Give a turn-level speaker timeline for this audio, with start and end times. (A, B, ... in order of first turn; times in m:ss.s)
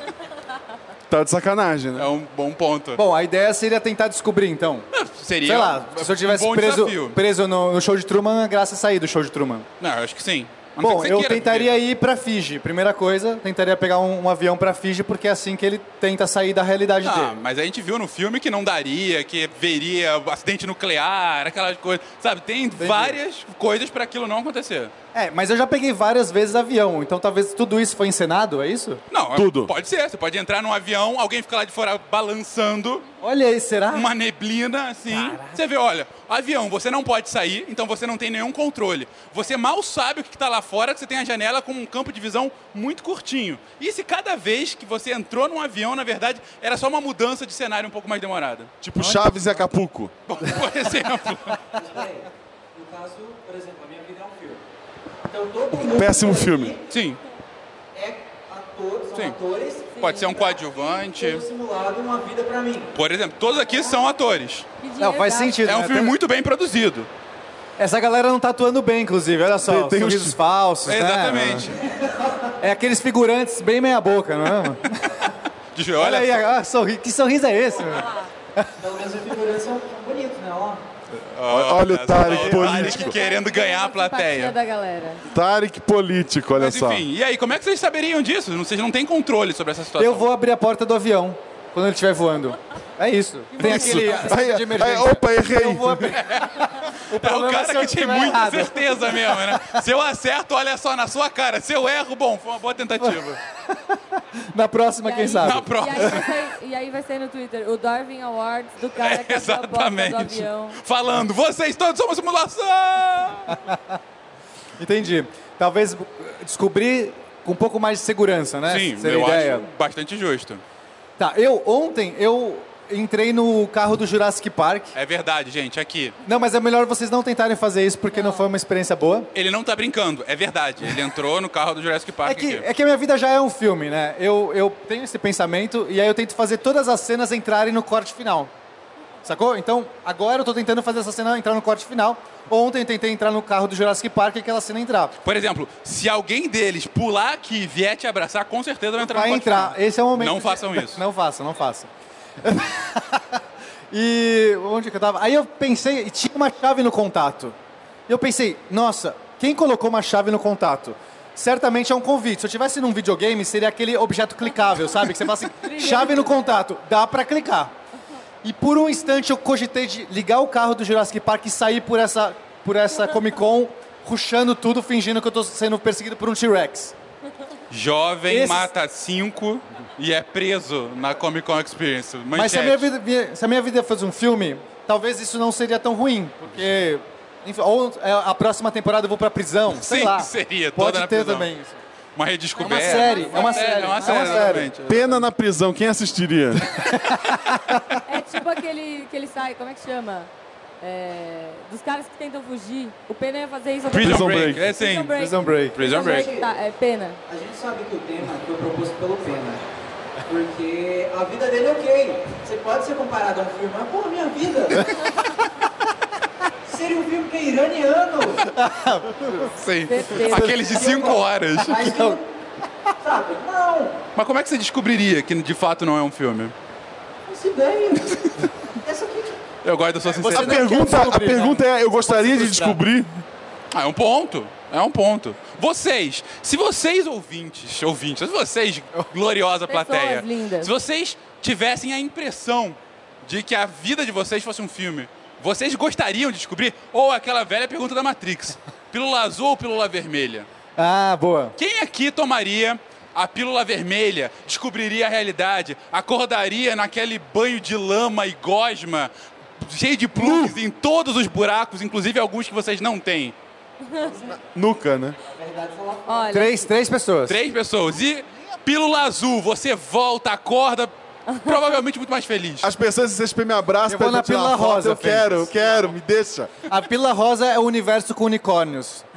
0:01.1-0:02.1 A
0:02.0-0:03.0 B
0:03.0-0:04.9 C
0:04.9-0:07.2 B
0:05.4-0:09.7 C
0:09.8-0:11.8 B
0:10.8-0:17.4 C
0:17.0-0:24.9 B
0:22.8-0:23.2 C
0:25.1-0:29.0 C
0:29.1-0:33.0 B
0:29.3-0:29.7 A
0:33.2-0:34.1 C
0:33.9-0:48.7 B
0:48.8-0:50.1 A
0:50.3-0:51.6 B
0:51.7-0:54.6 D
0:55.3-0:56.8 D
0:55.8-0:56.8 A
0:56.9-0:57.2 B
0:57.9-1:02.9 D
1:00.0-1:01.4 B
1:02.9-1:04.7 B
1:04.8-1:05.6 E
1:05.0-1:06.1 C
1:05.6-1:07.1 B
1:07.8-1:11.7 C
1:09.6-1:10.4 A
1:10.9-1:11.8 B
1:12.6-1:15.3 C
1:15.8-1:16.4 B
1:16.0-1:18.7 C
1:18.8-1:20.8 D
1:21.3-1:24.6 B
1:21.5-1:23.2 A
1:22.5-1:25.2 E
1:25.3-1:27.0 A
1:26.6-1:30.3 B
1:30.0-1:36.4 C
1:33.6-1:36.1 A
1:36.1-1:43.4 B
1:37.1-1:39.8 C
1:44.4-1:46.1 C
1:45.0-1:50.8 E
1:45.4-1:46.3 B
1:49.0-1:53.6 B
1:54.8-1:59.7 C
1:58.7-2:00.6 B
2:01.2-2:05.0 C
2:04.9-2:06.2 B
2:06.2-2:09.3 C
2:08.1-2:08.4 E
2:09.3-2:12.6 B
2:12.2-2:18.5 C
2:19.2-2:25.2 C
2:25.2-2:31.0 B
2:29.0-2:31.9 C
2:32.4-2:37.6 C
2:38.1-2:47.7 C
2:45.6-2:46.4 E
2:48.4-2:57.0 C
2:57.7-3:02.9 B
2:58.3-2:58.7 C
3:02.3-3:11.8 C
3:09.7-3:11.5 B
3:12.2-3:15.3 B
3:12.6-3:14.7 E
3:12.6-3:14.7 C
3:14.8-3:16.6 A
3:16.8-3:17.8 C
3:18.1-3:20.3 E
3:20.8-3:27.2 E
3:23.9-3:25.2 B
3:24.0-3:24.7 A
3:25.2-3:25.8 C
3:25.8-3:26.3 B
3:25.9-3:26.5 D
3:27.3-3:29.6 D
3:30.3-3:34.9 D
3:36.7-3:38.4 D
3:38.5-3:39.5 C
3:39.6-3:42.1 B
3:39.9-3:40.6 E
3:40.5-3:42.2 D
3:41.8-3:42.2 C
3:43.0-3:44.0 D
3:44.2-3:46.5 B
3:47.3-3:49.4 D
3:49.6-3:50.9 B
3:50.1-3:52.7 C
3:50.3-3:53.1 A
3:52.4-3:52.7 D
3:53.7-4:10.5 B
3:59.7-4:00.7 E
4:10.8-4:11.6 C
4:11.6-4:23.4 B
4:20.2-4:20.6 C
4:24.0-4:24.4 D
4:24.5-4:25.2 A
4:25.2-4:26.5 D
4:26.1-4:26.6 E
4:26.3-4:27.4 C
4:27.3-4:32.7 B
4:31.3-4:31.6 E
4:32.6-4:36.6 A
4:33.9-4:35.5 C
4:36.7-4:39.0 C